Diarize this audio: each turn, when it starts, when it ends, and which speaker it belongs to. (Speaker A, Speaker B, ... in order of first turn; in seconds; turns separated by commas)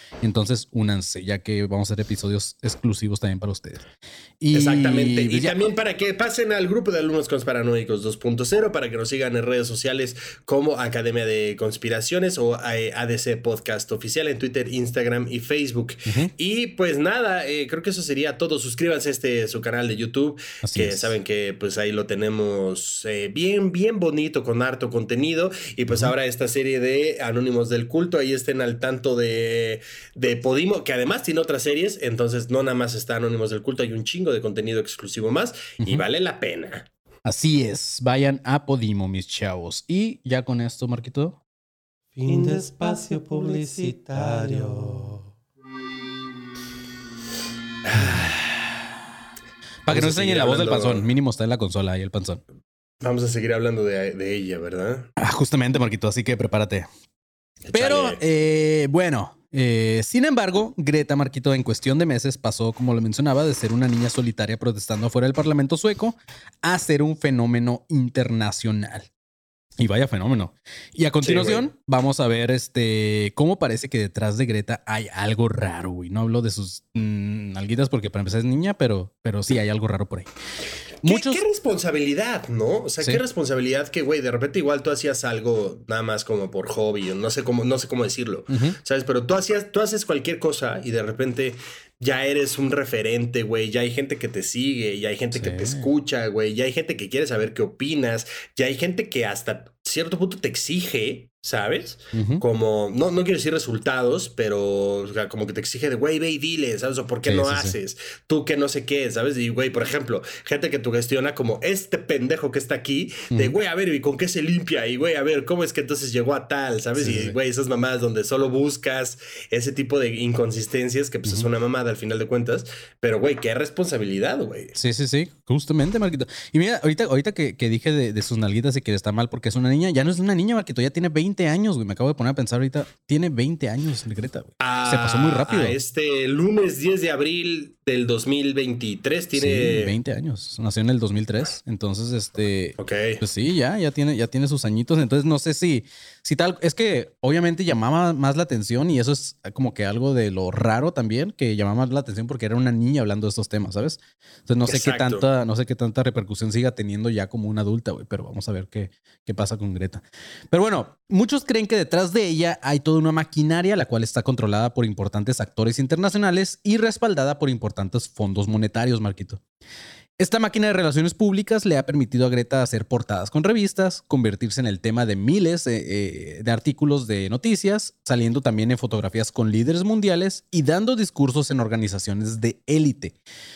Speaker A: 0.2-3.8, Speaker A: 4.4-5.6, Speaker B: 4.5-36.9, Speaker A: 20.6-21.1, Speaker A: 35.8-36.0, Speaker A: 37.2-41.4, Speaker C: 42.1-45.3, Speaker B: 47.9-48.7, Speaker A: 48.0-48.2, Speaker A: 49.9-52.4, Speaker B: 49.9-51.1, Speaker B: 53.0-55.1, Speaker A: 55.2-56.9, Speaker B: 57.7-58.2, Speaker A: 57.7-69.1, Speaker A: 69.8-80.3, Speaker B: 71.2-71.7, Speaker B: 81.0-124.7, Speaker A: 81.0-81.4, Speaker A: 88.5-88.8, Speaker A: 95.3-95.9, Speaker A: 102.1-102.4, Speaker A: 107.2-107.8, Speaker A: 117.0-117.3, Speaker A: 124.7-135.8, Speaker B: 134.6-139.9, Speaker A: 139.3-169.4, Speaker B: 142.8-143.2, Speaker B: 154.7-155.2, Speaker A: 170.2-183.1